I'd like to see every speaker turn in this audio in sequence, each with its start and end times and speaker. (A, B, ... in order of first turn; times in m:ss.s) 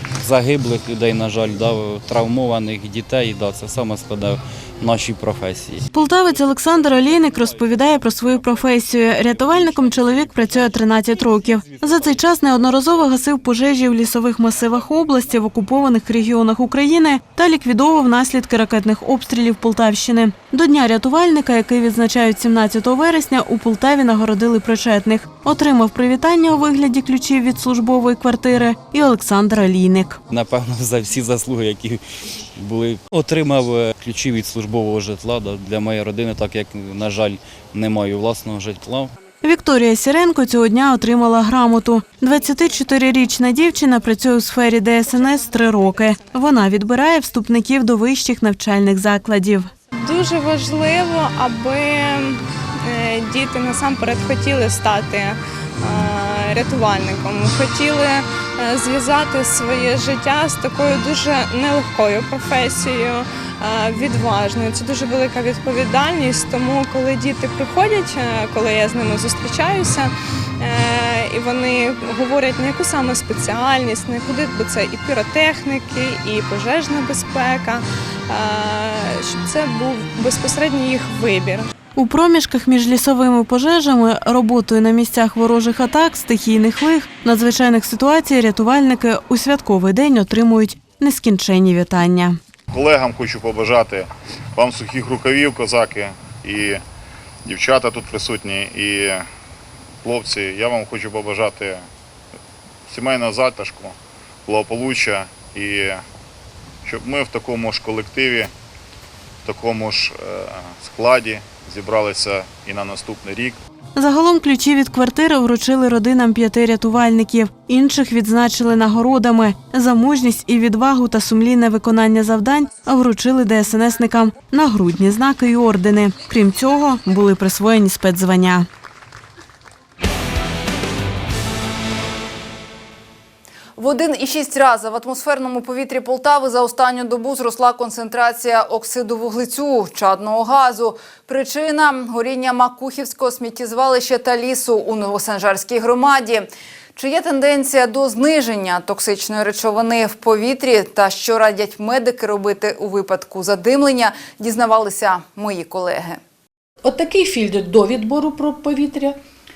0:00.2-0:05.8 A
0:05.9-0:30.2 B
0:30.3-0:32.0 A
0:32.6-0:39.1 A
0:39.4-0:49.7 B
0:49.9-1:21.7 C
1:22.0-1:32.4 B
1:32.7-1:36.8 D
1:37.4-1:39.3 D
1:40.0-1:41.8 D
1:42.9-1:43.9 D
1:44.4-1:46.0 D
1:46.8-1:48.5 D
1:49.4-1:53.6 D
1:54.0-2:08.7 B
2:13.8-2:36.2 E
2:36.8-2:39.2 F